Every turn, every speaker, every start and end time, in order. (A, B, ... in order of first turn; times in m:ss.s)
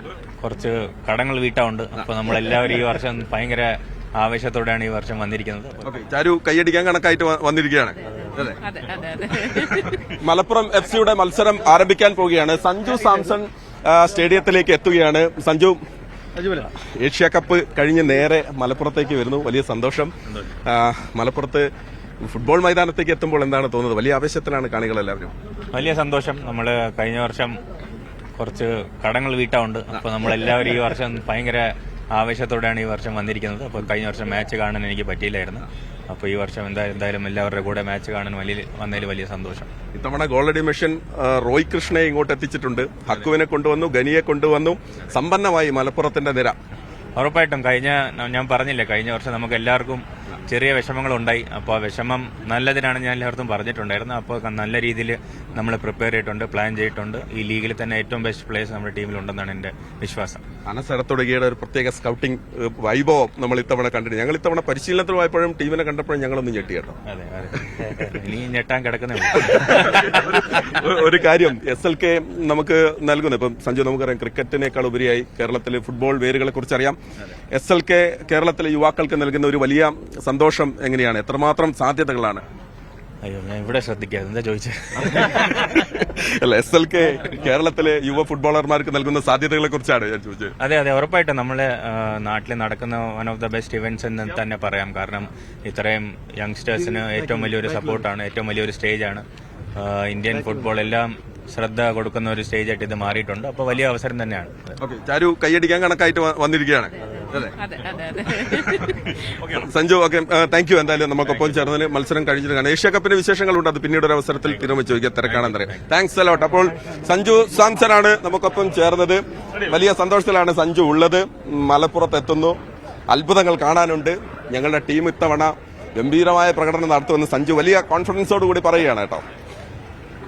0:00.4-0:05.9 A
0:05.8-0:08.6 B
0:08.4-0:10.1 C
0:10.2-0:15.8 B
0:16.4-0:21.7 B
0:22.2-0:25.3 B
0:25.7-0:27.6 A
0:28.4-0:39.7 A
0:39.9-0:46.6 B
0:47.2-1:00.4 A
1:00.7-1:07.0 B
1:07.1-1:10.7 A
1:09.4-1:17.0 B
1:17.5-1:22.4 B
1:23.2-1:25.8 A
1:25.2-1:30.6 B
1:30.6-1:39.2 A
1:39.8-1:44.7 A
1:44.8-1:47.6 B
1:47.6-1:49.2 C
1:49.4-2:02.6 B
2:03.1-2:09.2 B